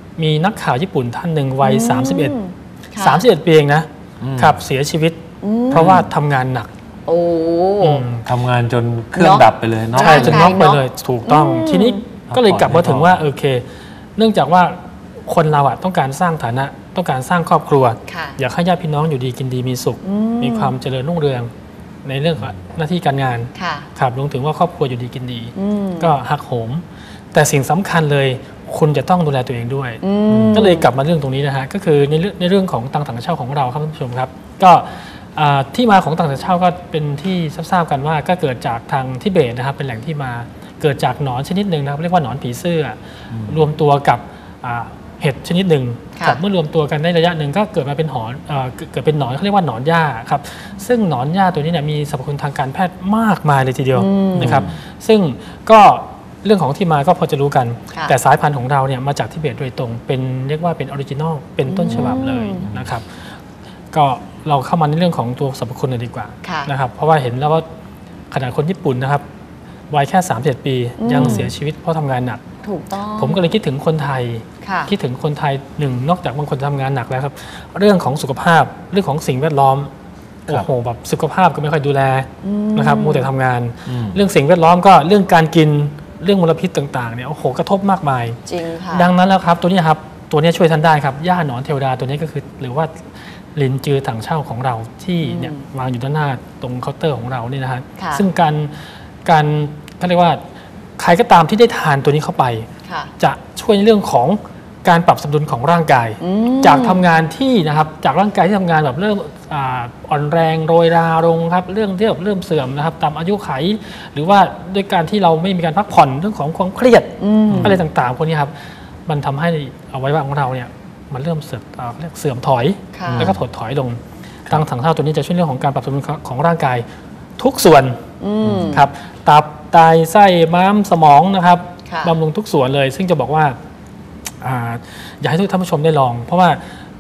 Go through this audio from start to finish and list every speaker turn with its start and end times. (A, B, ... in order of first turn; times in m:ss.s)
0:00.2-0:02.4 A
0:01.6-0:03.2 B
0:03.0-0:06.7 A
0:04.2-0:04.6 C
0:05.4-0:06.0 B
0:05.7-0:06.1 C
0:07.1-0:08.0 B
0:07.8-0:08.2 A
0:08.2-0:10.5 C
0:09.2-0:12.0 B
0:10.0-0:21.5 A
0:12.3-0:13.2 C
0:18.1-0:18.4 B
0:20.0-0:20.8 B
0:22.0-0:30.0 A
0:22.4-0:22.7 C
0:23.6-0:23.9 B
0:25.6-0:26.1 B
0:30.0-0:30.9 B
0:30.3-0:30.7 C
0:30.5-1:03.1 A
0:43.3-0:43.7 C
0:53.9-0:54.7 B
0:54.4-0:54.8 C
1:01.7-1:02.7 B
1:01.9-1:02.9 C
1:03.9-1:07.7 A
1:06.4-1:06.7 B
1:08.3-1:09.2 A
1:09.9-1:12.4 A
1:11.0-1:11.5 B
1:11.1-1:11.5 C
1:12.6-1:13.5 B
1:13.2-1:19.9 A
1:14.6-1:14.9 B
1:20.5-1:28.4 A
1:22.4-1:23.3 B
1:23.9-1:24.2 C
1:28.5-1:29.1 B
1:28.9-1:33.0 A
1:33.5-1:40.4 A
1:35.2-1:35.6 B
1:38.0-1:38.2 B
1:41.0-1:42.7 A
1:42.9-1:43.1 B
1:43.2-1:58.5 A
1:46.2-1:47.0 B
1:57.2-1:57.8 B
1:57.5-1:57.8 C
1:59.1-2:06.8 A
2:02.9-2:03.3 B
2:03.1-2:03.4 C
2:07.4-2:08.0 A
2:08.2-2:08.9 B
2:08.4-2:08.8 C
2:08.7-2:13.6 A
2:11.9-2:12.2 B
2:14.4-2:16.6 A